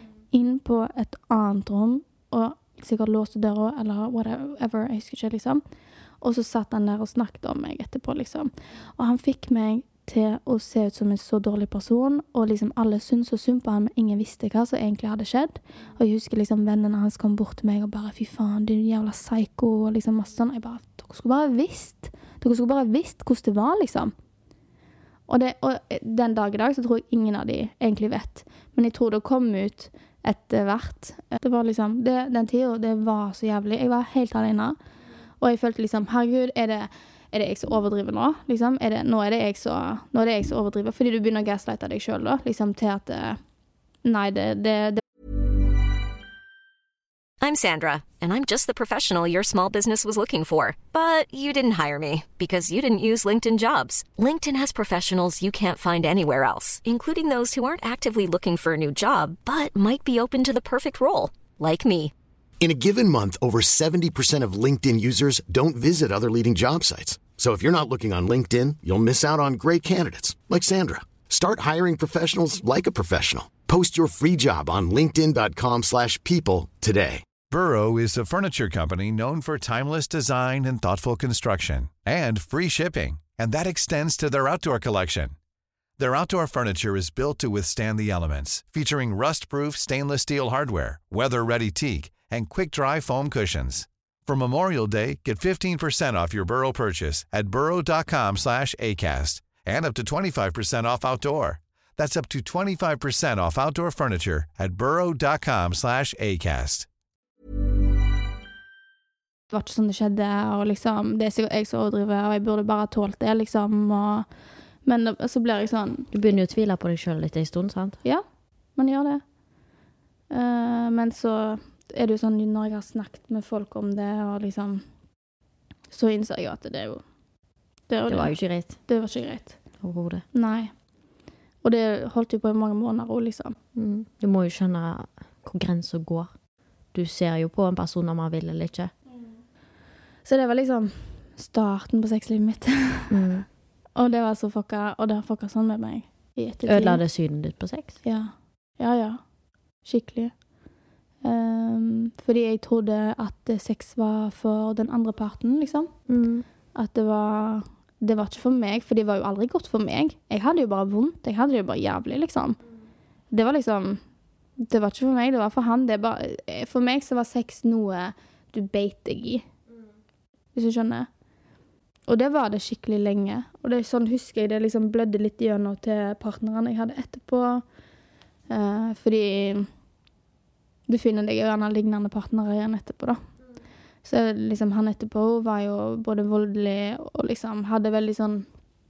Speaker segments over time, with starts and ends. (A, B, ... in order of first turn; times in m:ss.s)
0:00.3-0:05.6 A
0:06.2-0:24.1 A
0:25.3-0:34.8 A
0:35.4-0:43.4 A
0:44.0-0:45.0 A
0:47.4-1:02.1 B
1:02.6-1:17.2 C
1:17.5-1:25.4 D
1:26.0-1:46.9 D
1:49.5-1:54.3 A
1:54.8-1:56.1 A
1:56.1-1:58.0 E
1:58.8-1:59.2 A
2:00.3-2:04.9 A
2:05.9-2:07.0 A
2:07.9-2:09.6 A
2:08.1-2:08.8 E
2:09.8-2:10.2 E
2:10.3-2:10.7 A
2:11.6-2:13.6 A
2:13.8-2:16.3 E
2:16.9-2:18.9 E
2:20.2-2:23.2 A
2:23.1-2:23.5 E
2:24.0-2:27.0 A
2:26.7-2:28.0 E
2:28.0-2:29.2 A
2:29.8-2:30.4 A
2:31.2-2:36.0 A
2:36.1-2:36.4 E
2:36.8-2:42.6 A
2:43.3-2:44.0 A
2:44.6-2:49.5 A
2:50.5-2:51.1 A
2:52.1-2:57.6 A
2:58.5-2:59.7 A
3:00.9-3:03.2 A
3:04.0-3:08.5 A